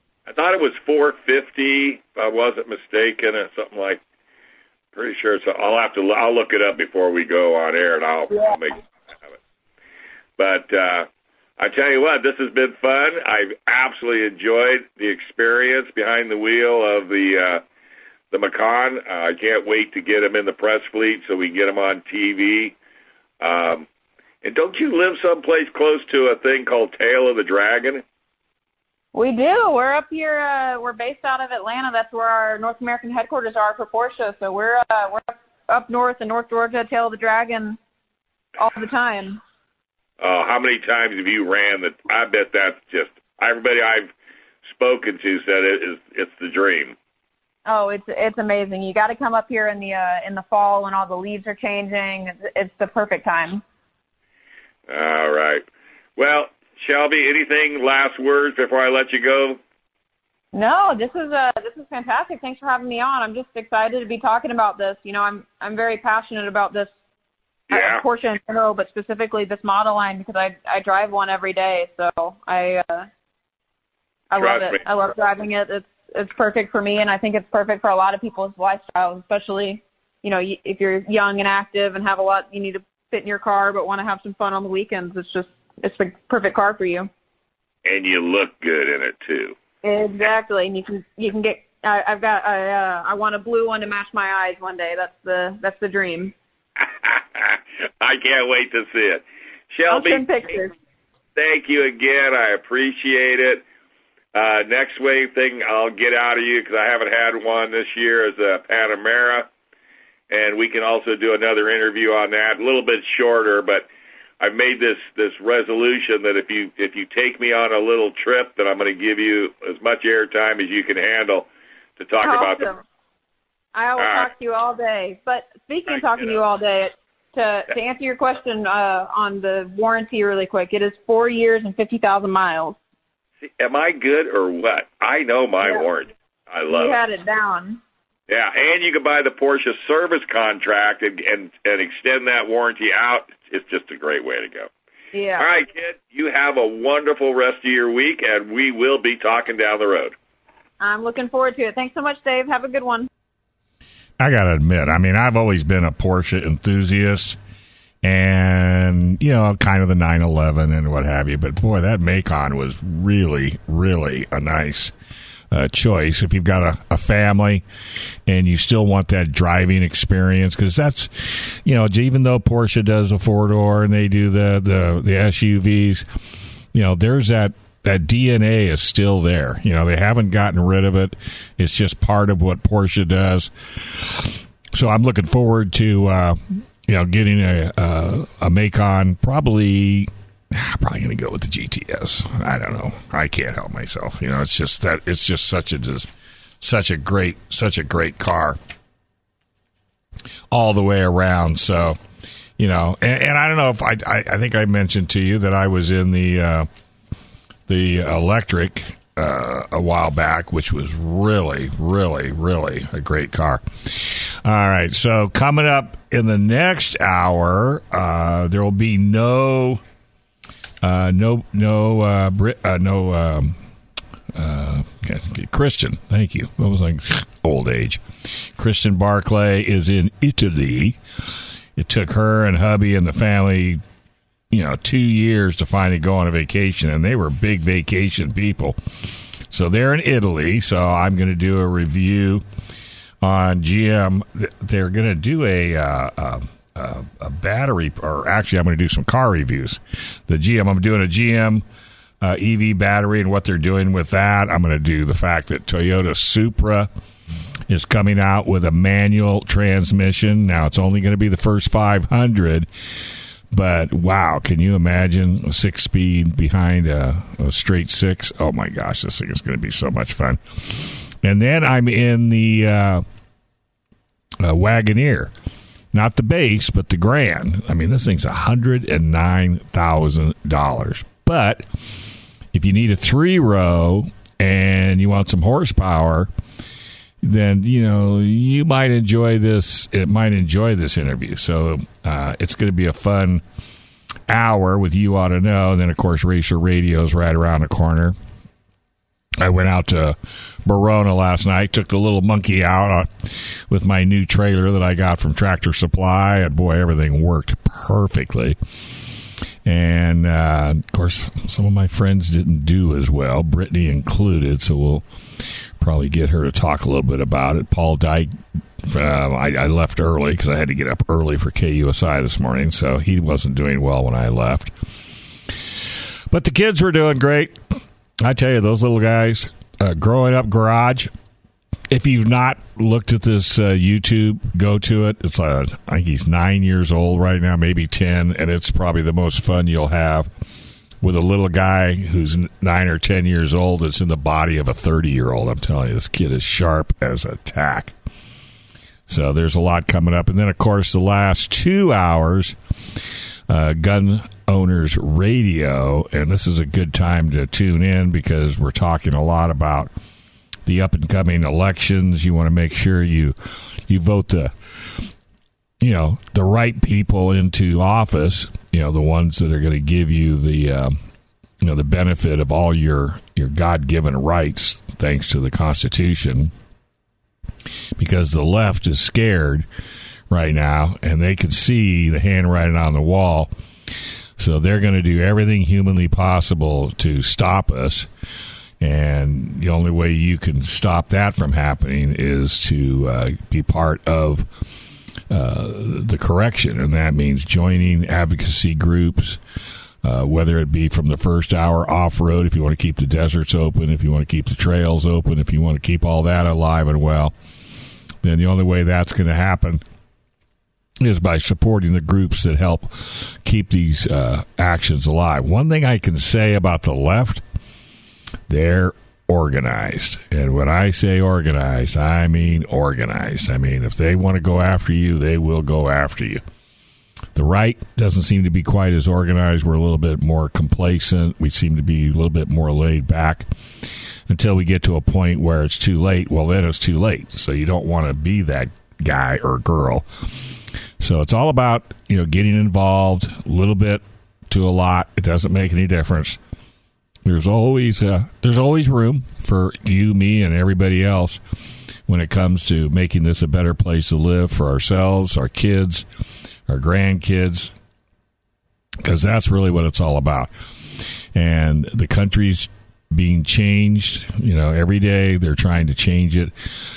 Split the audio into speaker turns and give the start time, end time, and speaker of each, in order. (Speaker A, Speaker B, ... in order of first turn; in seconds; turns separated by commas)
Speaker A: 0.3-4.0, Speaker A: 4.9-8.8, Speaker B: 8.3-8.6, Speaker A: 10.4-11.1, Speaker A: 11.6-17.6, Speaker A: 18.3-22.8, Speaker A: 23.4-23.9, Speaker A: 24.4-28.0, Speaker B: 29.1-37.8, Speaker B: 38.6-39.4, Speaker A: 40.2-44.1, Speaker A: 44.7-47.0, Speaker B: 47.7-53.6, Speaker A: 54.9-55.6, Speaker A: 56.2-59.6, Speaker B: 60.5-66.9, Speaker A: 67.7-68.0, Speaker B: 67.7-73.1, Speaker B: 74.3-87.1, Speaker A: 74.4-74.8, Speaker A: 87.9-89.5, Speaker B: 89.8-96.3, Speaker A: 96.8-100.3, Speaker B: 99.9-100.7, Speaker A: 101.4-103.6, Speaker A: 104.3-109.5, Speaker A: 110.3-113.9, Speaker A: 114.4-122.7, Speaker B: 122.2-122.8, Speaker B: 123.8-132.8, Speaker A: 124.0-124.3, Speaker A: 125.9-126.4, Speaker A: 133.4-137.0, Speaker B: 136.7-137.8, Speaker A: 138.3-144.7, Speaker B: 145.1-145.5, Speaker A: 145.4-150.2, Speaker B: 150.8-153.1, Speaker C: 154.2-157.4, Speaker C: 158.0-164.9, Speaker C: 165.5-167.6, Speaker C: 168.3-176.1, Speaker C: 176.7-198.6, Speaker C: 200.5-202.0, Speaker C: 202.6-206.7, Speaker C: 207.7-219.8, Speaker C: 220.8-223.6, Speaker C: 224.3-231.0, Speaker C: 231.8-233.8, Speaker C: 234.5-238.8, Speaker C: 239.5-242.4, Speaker C: 243.2-251.6, Speaker C: 252.2-256.9, Speaker C: 257.7-262.7, Speaker C: 263.5-273.0, Speaker C: 274.4-275.3, Speaker C: 275.9-281.6, Speaker C: 282.5-286.3, Speaker C: 287.2-293.4, Speaker C: 294.3-298.2, Speaker C: 299.4-308.6, Speaker C: 309.6-315.0, Speaker C: 315.8-324.7, Speaker C: 326.3-327.6, Speaker C: 328.2-331.1, Speaker C: 331.9-340.3, Speaker C: 341.0-347.9, Speaker C: 349.1-352.6, Speaker C: 353.5-359.9, Speaker C: 360.7-363.4, Speaker C: 363.9-365.1, Speaker C: 365.8-371.0, Speaker C: 371.6-376.5, Speaker C: 378.0-379.7, Speaker C: 380.3-383.5, Speaker C: 384.4-388.1, Speaker C: 388.8-394.5, Speaker C: 395.3-399.4, Speaker C: 400.0-407.3, Speaker C: 408.2-409.8, Speaker C: 411.0-417.4, Speaker C: 418.5-426.4, Speaker C: 427.4-433.5, Speaker C: 434.3-440.1, Speaker C: 441.0-446.4, Speaker C: 447.2-451.4, Speaker C: 452.1-456.1, Speaker C: 456.7-457.7, Speaker C: 459.0-460.5, Speaker C: 461.3-466.5